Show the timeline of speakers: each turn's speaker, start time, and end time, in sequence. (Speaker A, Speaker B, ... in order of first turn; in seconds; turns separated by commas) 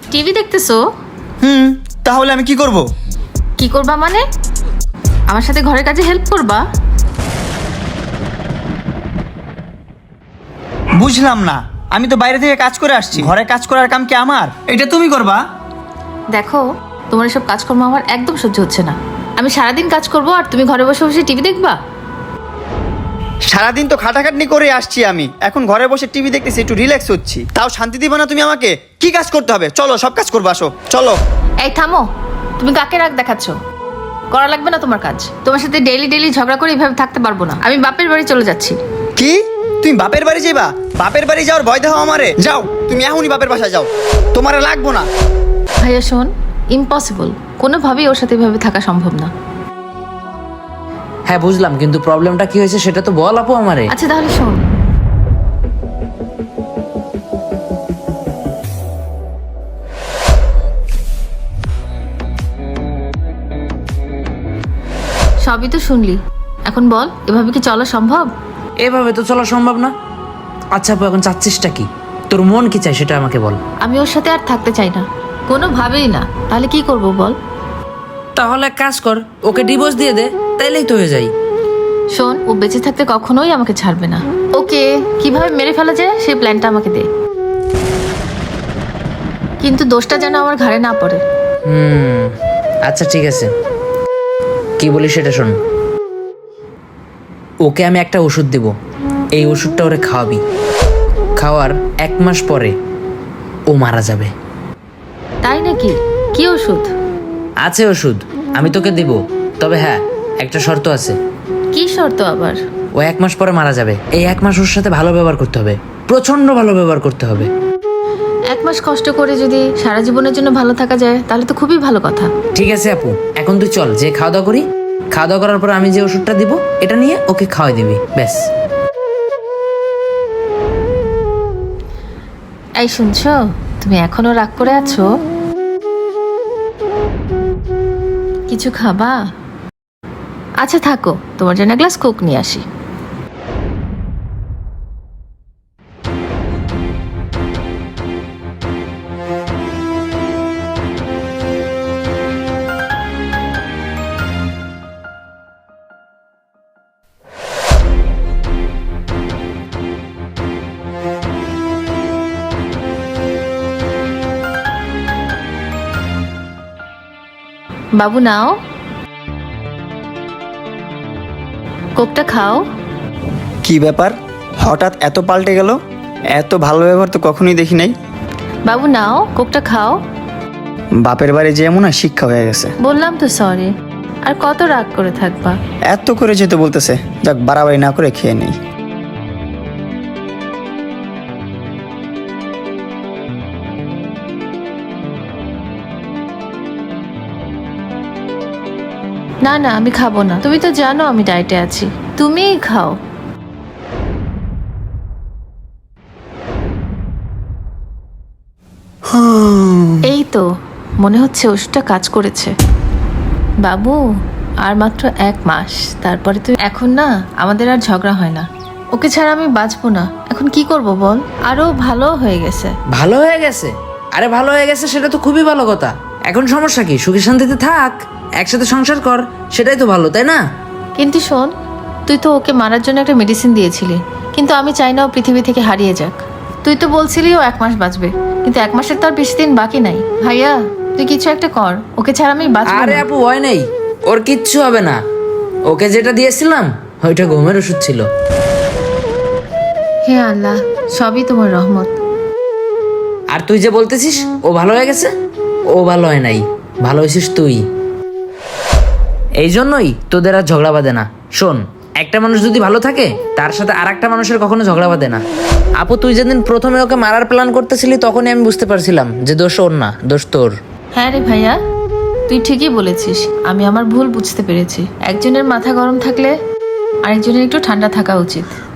Speaker A: 0.1-0.8, Speaker B: 1.4-2.8, Speaker A: 3.6-4.2, Speaker A: 5.3-6.6, Speaker B: 10.9-15.4, Speaker A: 16.3-21.8, Speaker B: 23.5-31.2, Speaker A: 31.6-32.1, Speaker A: 32.6-33.5, Speaker A: 34.3-38.8, Speaker B: 39.2-45.1, Speaker A: 45.8-49.3, Speaker C: 51.3-53.9, Speaker A: 53.9-54.6, Speaker A: 65.4-68.3, Speaker C: 68.8-69.9, Speaker C: 70.7-73.6, Speaker A: 73.8-77.3, Speaker C: 78.3-81.3, Speaker A: 82.1-87.1, Speaker A: 89.6-91.2, Speaker C: 91.6-92.3, Speaker C: 92.9-93.5, Speaker C: 94.8-95.5, Speaker C: 97.6-98.7, Speaker C: 99.3-100.4, Speaker C: 101.4-102.7, Speaker C: 103.7-104.3, Speaker A: 105.4-106.9, Speaker C: 107.6-111.2, Speaker A: 111.7-112.6, Speaker C: 113.0-117.5, Speaker A: 118.5-122.3, Speaker C: 122.5-128.4, Speaker A: 132.8-135.1, Speaker A: 138.5-139.2, Speaker A: 140.6-142.6, Speaker A: 168.0-168.6, Speaker A: 172.0-172.6, Speaker B: 173.6-175.8, Speaker B: 176.3-177.9, Speaker A: 178.7-180.0, Speaker B: 181.0-182.7, Speaker A: 182.8-183.7, Speaker A: 184.2-185.6, Speaker B: 185.9-188.5, Speaker A: 199.4-203.0, Speaker B: 209.2-209.9, Speaker A: 210.0-210.5, Speaker A: 211.0-212.5, Speaker A: 213.6-214.0, Speaker A: 214.6-222.7, Speaker C: 222.9-230.4, Speaker A: 231.0-231.5, Speaker A: 232.1-243.0, Speaker C: 242.7-245.0, Speaker C: 245.7-248.0, Speaker A: 250.1-251.9, Speaker C: 253.3-255.1, Speaker C: 255.7-257.6, Speaker C: 259.4-265.2, Speaker C: 265.8-270.5, Speaker A: 270.9-271.6, Speaker A: 272.3-276.3, Speaker A: 277.0-278.5